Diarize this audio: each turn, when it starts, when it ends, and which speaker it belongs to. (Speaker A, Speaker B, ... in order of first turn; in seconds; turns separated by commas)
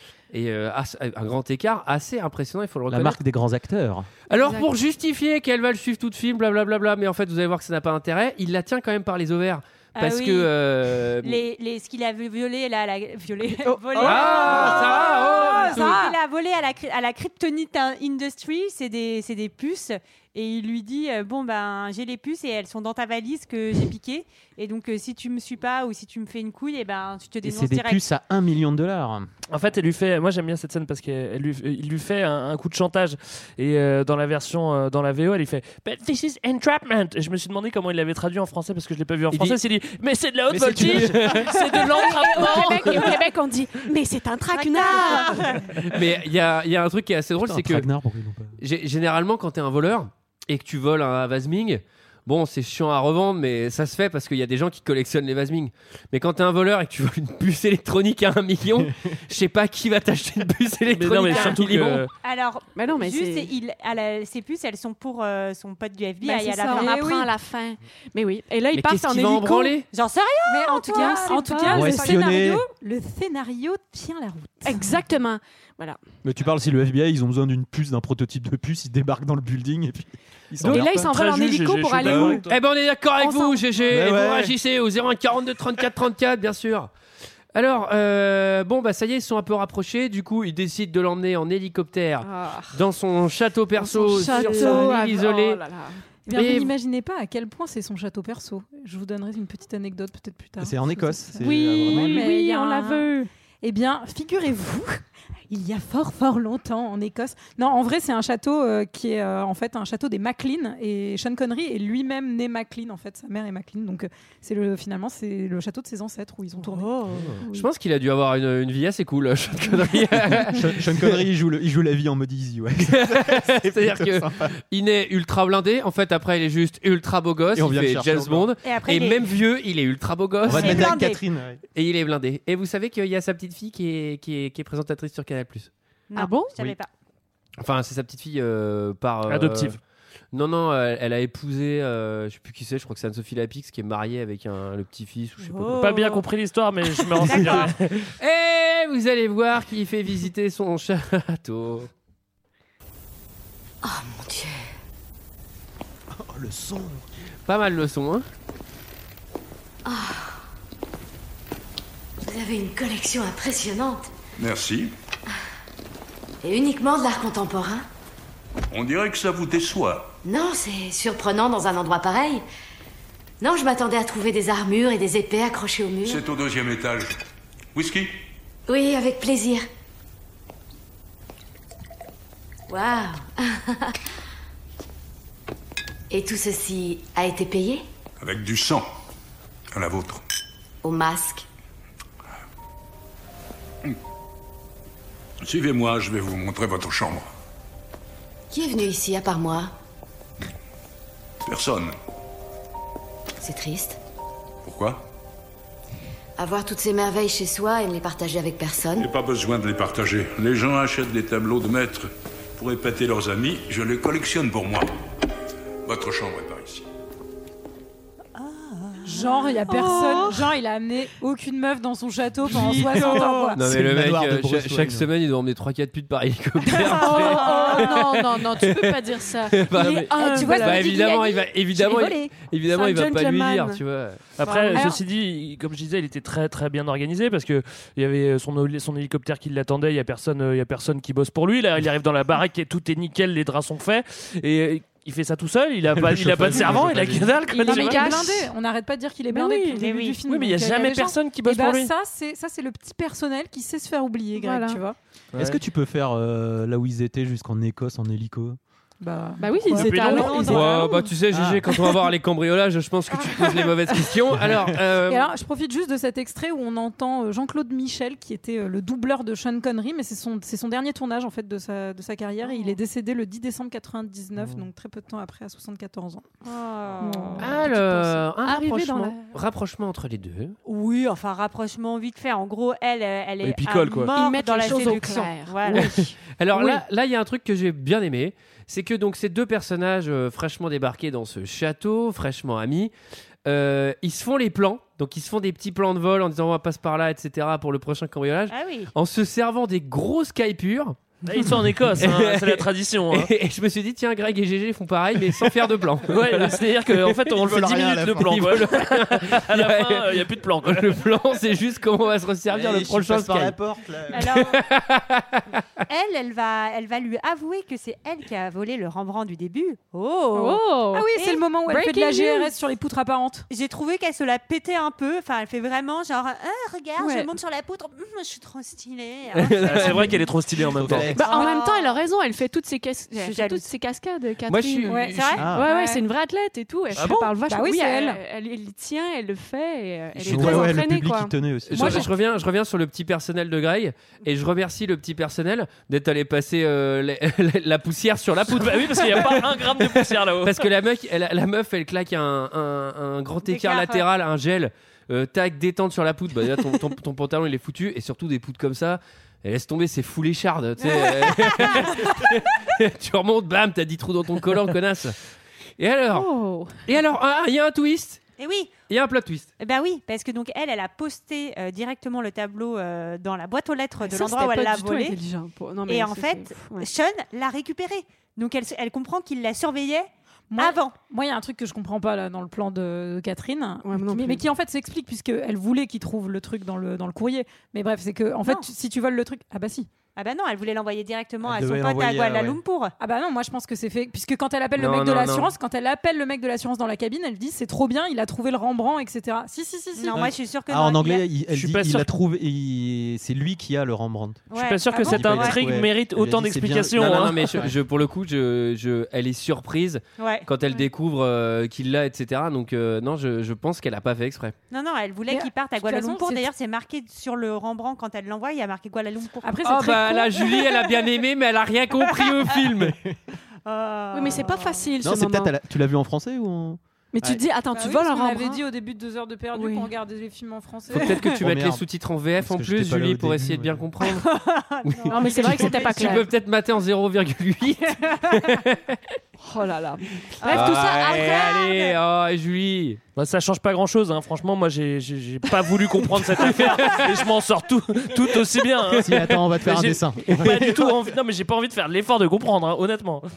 Speaker A: 0.3-3.2, Speaker B: 2.9-4.1, Speaker A: 4.3-11.4, Speaker C: 4.3-4.7, Speaker D: 10.0-10.5, Speaker D: 11.2-28.0, Speaker C: 13.6-14.6, Speaker A: 14.0-16.0, Speaker E: 14.0-16.2, Speaker B: 27.4-29.3, Speaker F: 29.5-43.2, Speaker B: 40.5-41.5, Speaker A: 40.7-41.6, Speaker C: 41.6-45.6, Speaker D: 44.5-45.8, Speaker A: 45.8-47.9, Speaker B: 47.4-48.6, Speaker A: 48.6-62.1, Speaker F: 60.9-62.1, Speaker D: 61.3-61.6, Speaker D: 62.2-67.0, Speaker C: 62.8-63.5, Speaker E: 66.2-67.3, Speaker C: 66.6-69.8, Speaker A: 68.7-69.9, Speaker D: 69.9-71.8, Speaker E: 70.5-75.0, Speaker C: 70.9-72.1, Speaker B: 71.7-72.7, Speaker C: 74.6-76.0, Speaker B: 76.2-81.1, Speaker F: 80.6-82.6, Speaker C: 80.6-82.5, Speaker B: 82.0-82.4, Speaker A: 82.5-86.9, Speaker C: 83.2-84.0, Speaker B: 83.9-84.5, Speaker A: 87.5-95.6, Speaker C: 92.2-92.8, Speaker C: 93.8-96.7, Speaker E: 94.1-95.0, Speaker E: 96.3-117.1, Speaker B: 100.6-102.3, Speaker C: 101.4-103.3, Speaker C: 116.6-117.7, Speaker A: 117.4-121.2, Speaker B: 120.2-124.5, Speaker A: 122.9-131.0, Speaker B: 127.5-128.5, Speaker D: 128.6-129.4, Speaker B: 130.4-131.6, Speaker D: 130.5-131.2, Speaker A: 131.8-135.7, Speaker D: 136.1-136.9, Speaker C: 136.2-136.6, Speaker A: 137.6-139.8, Speaker F: 139.3-139.8, Speaker A: 140.3-145.8, Speaker D: 145.4-146.2, Speaker F: 145.7-147.9, Speaker D: 147.1-147.7, Speaker A: 147.4-151.9, Speaker G: 153.8-154.7, Speaker B: 156.1-157.1, Speaker A: 157.5-158.3, Speaker G: 159.8-160.4, Speaker G: 162.2-164.1, Speaker H: 164.4-164.9, Speaker G: 166.4-167.9, Speaker H: 168.7-170.1, Speaker G: 170.2-172.4, Speaker G: 173.4-176.2, Speaker H: 176.1-177.2, Speaker H: 177.7-178.1, Speaker G: 178.7-179.7, Speaker G: 182.7-183.9, Speaker G: 186.1-187.8, Speaker H: 188.2-188.9, Speaker H: 189.7-190.2, Speaker G: 190.8-191.5, Speaker H: 195.4-197.3, Speaker G: 198.5-199.7, Speaker H: 201.5-201.9, Speaker G: 203.4-204.0, Speaker H: 204.7-205.0, Speaker G: 206.4-209.1, Speaker H: 209.0-214.9, Speaker H: 215.8-216.9, Speaker D: 218.4-219.4, Speaker E: 219.0-223.6, Speaker C: 219.7-220.5, Speaker C: 222.4-223.5, Speaker B: 222.6-222.8, Speaker D: 223.0-223.4, Speaker B: 223.6-225.1, Speaker A: 223.6-234.2, Speaker C: 226.6-231.1, Speaker E: 227.4-227.8, Speaker E: 229.8-232.3, Speaker C: 232.7-233.8, Speaker F: 234.4-248.2, Speaker C: 234.4-234.9, Speaker E: 234.7-235.0, Speaker B: 245.9-247.4, Speaker E: 247.6-255.0, Speaker C: 247.6-248.5, Speaker C: 249.3-249.9, Speaker D: 249.8-250.2, Speaker F: 250.3-251.9, Speaker C: 254.3-254.8, Speaker F: 255.3-255.6, Speaker B: 255.4-258.6, Speaker E: 259.0-261.1, Speaker C: 259.4-260.8, Speaker F: 259.7-260.6, Speaker D: 260.1-260.8, Speaker A: 260.2-265.3, Speaker B: 261.3-261.7, Speaker C: 263.6-264.0, Speaker B: 264.4-264.6, Speaker E: 265.1-276.3, Speaker D: 276.4-277.6, Speaker E: 277.0-278.2, Speaker A: 277.4-280.6, Speaker C: 278.4-279.3, Speaker D: 280.7-286.0, Speaker F: 283.4-284.1, Speaker C: 284.1-286.8, Speaker A: 285.7-292.9, Speaker A: 293.4-301.0, Speaker D: 298.5-298.9, Speaker F: 301.2-303.3, Speaker A: 302.0-306.9, Speaker F: 306.1-311.0, Speaker B: 307.3-308.7, Speaker A: 308.2-313.6, Speaker B: 312.5-314.3, Speaker D: 314.1-314.6, Speaker A: 314.1-315.6, Speaker D: 315.9-320.6, Speaker C: 320.3-321.1, Speaker E: 320.4-323.5, Speaker D: 321.1-322.4, Speaker C: 321.7-322.4, Speaker D: 323.5-330.2, Speaker C: 327.0-327.3, Speaker A: 329.4-330.2, Speaker F: 329.6-331.1, Speaker B: 330.5-331.4, Speaker C: 331.1-342.1, Speaker D: 331.3-331.9, Speaker D: 333.1-333.6, Speaker A: 334.5-335.4, Speaker E: 334.9-336.1, Speaker D: 335.1-335.5, Speaker B: 335.4-335.7, Speaker E: 337.1-338.2, Speaker A: 340.1-340.8, Speaker B: 340.3-342.1, Speaker A: 341.7-365.2, Speaker E: 341.8-342.1, Speaker F: 348.5-350.7, Speaker D: 353.4-354.1, Speaker D: 361.5-361.9, Speaker A: 365.8-368.2, Speaker C: 366.1-366.8, Speaker D: 368.4-368.8, Speaker A: 368.9-369.5, Speaker D: 369.6-375.2, Speaker C: 374.0-376.9, Speaker D: 375.9-380.9, Speaker E: 380.5-389.9, Speaker C: 383.9-384.4, Speaker D: 390.2-392.9, Speaker B: 391.4-392.6, Speaker E: 393.0-400.3, Speaker A: 394.8-395.5, Speaker D: 399.9-401.3, Speaker B: 400.1-404.5, Speaker F: 401.5-402.1, Speaker D: 404.5-405.6, Speaker F: 404.5-407.5, Speaker B: 405.0-407.8, Speaker A: 407.0-414.6, Speaker D: 410.2-410.8, Speaker D: 414.7-420.0, Speaker E: 415.3-416.5, Speaker E: 419.4-420.7, Speaker A: 419.6-423.0, Speaker B: 422.6-423.2, Speaker D: 423.6-424.9, Speaker C: 424.1-425.6, Speaker B: 425.0-427.4, Speaker C: 427.1-428.6, Speaker E: 427.7-431.4, Speaker C: 429.5-429.9, Speaker A: 430.9-434.3, Speaker B: 431.4-431.9, Speaker B: 432.4-433.9, Speaker D: 434.1-436.2, Speaker A: 434.8-439.1, Speaker C: 435.1-436.3, Speaker D: 438.1-438.5, Speaker C: 439.4-441.2, Speaker D: 440.4-442.0, Speaker A: 440.5-443.0, Speaker F: 443.2-453.2, Speaker A: 446.5-447.0, Speaker B: 448.9-451.1